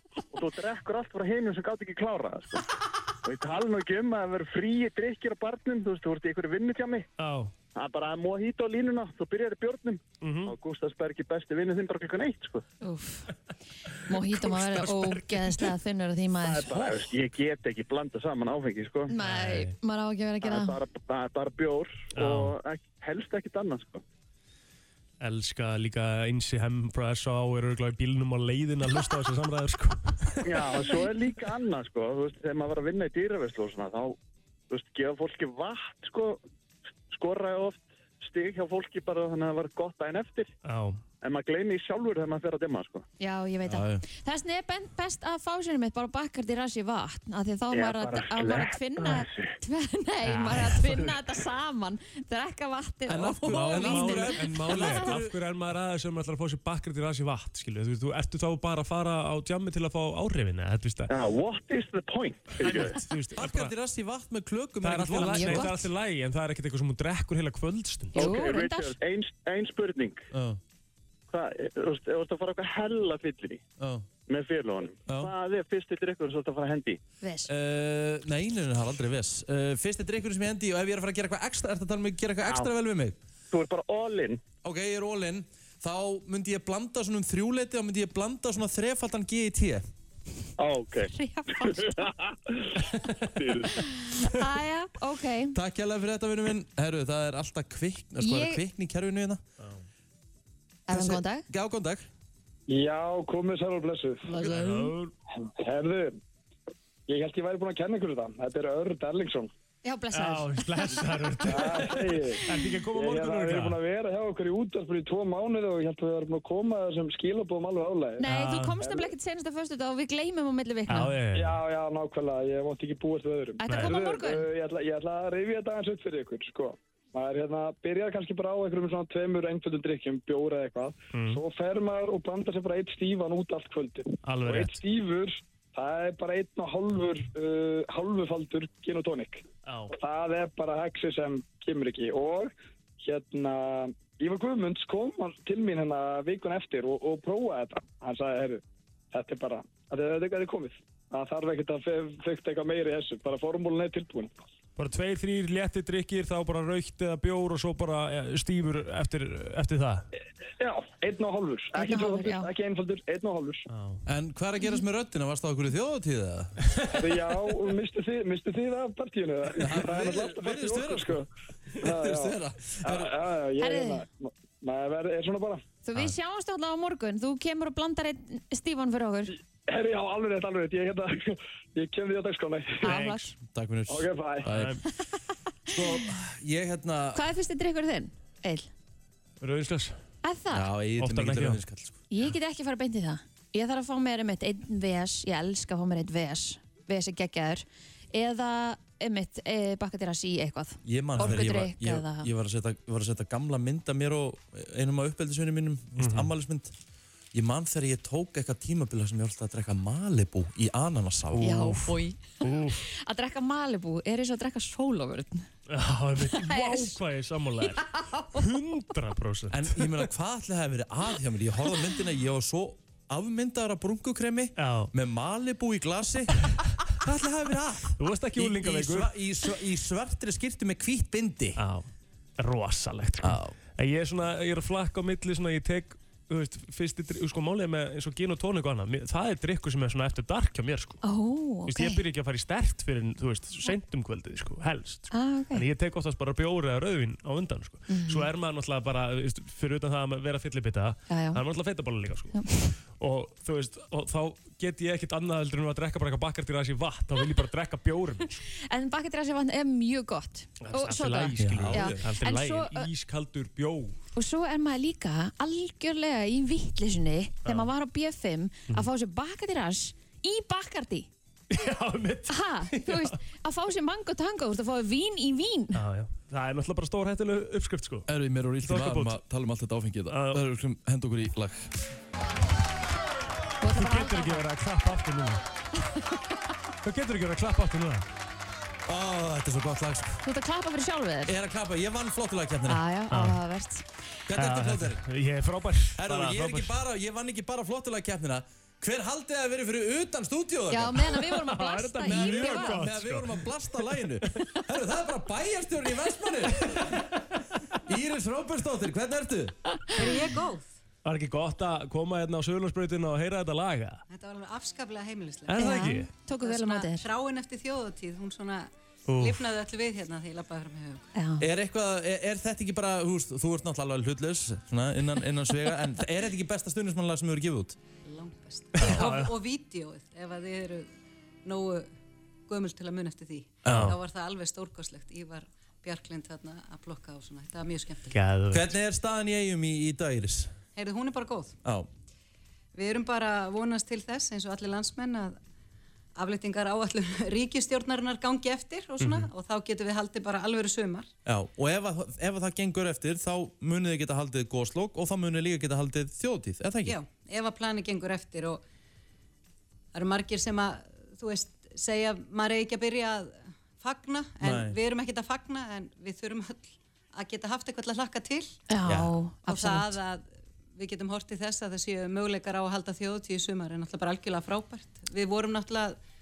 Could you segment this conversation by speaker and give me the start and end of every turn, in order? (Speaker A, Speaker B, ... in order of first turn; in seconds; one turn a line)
Speaker A: 0.3-2.6
Speaker A: 3.2-7.1
Speaker B: 7.2-7.5
Speaker A: 7.8-12.6
Speaker B: 10.2-10.5
Speaker C: 12.8-13.3
Speaker C: 14.1-16.8
Speaker B: 14.2-15.7
Speaker A: 16.4-19.1
Speaker C: 19.1-20.8
Speaker B: 19.2-19.7
Speaker A: 20.4-24.0
Speaker B: 22.1-22.5
Speaker B: 25.2-30.9
Speaker A: 30.4-34.2
Speaker A: 34.7-36.4
Speaker A: 37.1-40.5
Speaker B: 40.6-41.0
Speaker A: 41.2-43.1
Speaker C: 43.2-55.2
Speaker D: 43.7-44.0
Speaker A: 47.7-49.5
Speaker B: 50.2-51.1
Speaker D: 53.1-55.3
Speaker B: 53.5-61.1
Speaker A: 61.1-63.0
Speaker B: 62.6-63.7
Speaker D: 63.4-65.7
Speaker B: 64.8-68.3
Speaker C: 65.1-65.9
Speaker C: 68.2-69.0
Speaker A: 68.2-70.2
Speaker D: 70.3-70.6
Speaker A: 71.3-73.6
Speaker D: 73.8-74.0
Speaker A: 74.3-77.0
Speaker C: 77.2-77.5
Speaker D: 77.5-83.2
Speaker A: 82.5-82.7
Speaker A: 83.5-84.4
Speaker D: 84.6-89.8
Speaker A: 90.6-92.8
Speaker C: 91.1-92.0
Speaker A: 93.4-93.8
Speaker C: 93.8-95.6
Speaker D: 95.5-99.4
Speaker C: 98.2-98.6
Speaker C: 100.9-101.5
Speaker D: 100.9-102.1
Speaker E: 102.7-104.3
Speaker B: 104.4-105.1
Speaker E: 105.4-106.2
Speaker E: 107.1-109.5
Speaker C: 109.8-111.9
Speaker B: 110.1-113.8
Speaker E: 111.5-118.2
Speaker C: 112.4-112.8
Speaker C: 118.2-121.2
Speaker B: 118.2-118.8
Speaker E: 118.8-119.1
Speaker B: 120.9-121.6
Speaker E: 121.3-154.3
Speaker C: 123.6-124.5
Speaker B: 123.7-124.0
Speaker B: 131.1-131.4
Speaker B: 134.2-134.8
Speaker B: 139.7-139.9
Speaker B: 154.8-160.1
Speaker E: 160.6-163.7
Speaker C: 161.8-162.5
Speaker B: 163.7-164.0
Speaker D: 164.1-166.6
Speaker E: 166.9-171.3
Speaker D: 169.6-171.2
Speaker E: 171.8-175.7
Speaker D: 171.8-173.1
Speaker C: 173.6-174.1
Speaker C: 175.8-179.4
Speaker E: 179.7-182.9
Speaker C: 182.8-183.3
Speaker B: 182.8-183.3
Speaker D: 183.4-184.8
Speaker E: 183.9-184.5
Speaker B: 184.5-184.8
Speaker D: 185.7-187.2
Speaker C: 187.1-188.7
Speaker B: 189.4-190.0
Speaker C: 190.2-190.7
Speaker D: 190.5-192.0
Speaker B: 191.0-191.6
Speaker C: 192.1-202.3
Speaker D: 200.8-206.7
Speaker B: 206.0-206.3
Speaker D: 207.3-211.9
Speaker C: 211.4-215.5
Speaker B: 212.4-212.8
Speaker B: 215.7-220.0
Speaker C: 216.2-217.0
Speaker C: 217.6-218.5
Speaker D: 219.5-231.6
Speaker B: 224.6-224.9
Speaker B: 228.0-229.1
Speaker B: 231.6-231.9
Speaker B: 232.4-241.0
Speaker D: 233.2-233.6
Speaker C: 241.0-242.0
Speaker B: 241.7-258.4
Speaker C: 245.1-245.7
Speaker C: 247.9-248.3
Speaker C: 251.1-251.4
Speaker C: 252.3-252.7
Speaker C: 258.6-262.9
Speaker B: 260.6-264.0
Speaker D: 261.4-262.0
Speaker C: 264.2-271.1
Speaker B: 267.4-267.7
Speaker B: 271.5-273.2
Speaker C: 272.3-275.8
Speaker B: 275.8-278.1
Speaker D: 278.1-281.7
Speaker B: 278.6-279.2
Speaker B: 280.1-280.4
Speaker C: 283.6-284.5
Speaker B: 283.7-285.4
Speaker C: 285.8-286.2
Speaker B: 286.8-288.1
Speaker D: 288.9-290.2
Speaker C: 290.2-291.4
Speaker D: 291.3-292.8
Speaker C: 292.7-293.9
Speaker B: 293.1-293.4
Speaker D: 294.3-295.0
Speaker B: 294.4-296.8
Speaker D: 296.0-301.1
Speaker C: 300.7-302.8
Speaker B: 301.1-303.5
Speaker D: 302.0-306.9
Speaker B: 306.7-307.0
Speaker D: 307.9-309.6
Speaker F: 309.9-310.7
Speaker B: 311.1-314.0
Speaker F: 314.1-315.8
Speaker B: 315.5-316.1
Speaker C: 315.6-317.1
Speaker F: 316.4-321.1
Speaker B: 319.1-319.4
Speaker C: 321.1-321.4
Speaker D: 321.4-327.8
Speaker F: 328.0-330.9
Speaker B: 328.8-329.3
Speaker D: 328.8-329.1
Speaker F: 331.4-331.9
Speaker F: 332.5-338.2
Speaker D: 333.6-333.9
Speaker B: 333.6-334.0
Speaker B: 338.1-338.7
Speaker D: 338.5-340.5
Speaker F: 340.8-341.6
Speaker F: 342.7-345.4
Speaker F: 346.2-351.1
Speaker B: 349.0-349.3
Speaker D: 351.3-357.0
Speaker F: 356.9-358.6
Speaker F: 359.9-368.6
Speaker D: 364.4-364.8
Speaker C: 368.7-370.0
Speaker D: 368.9-369.1
Speaker F: 369.5-376.0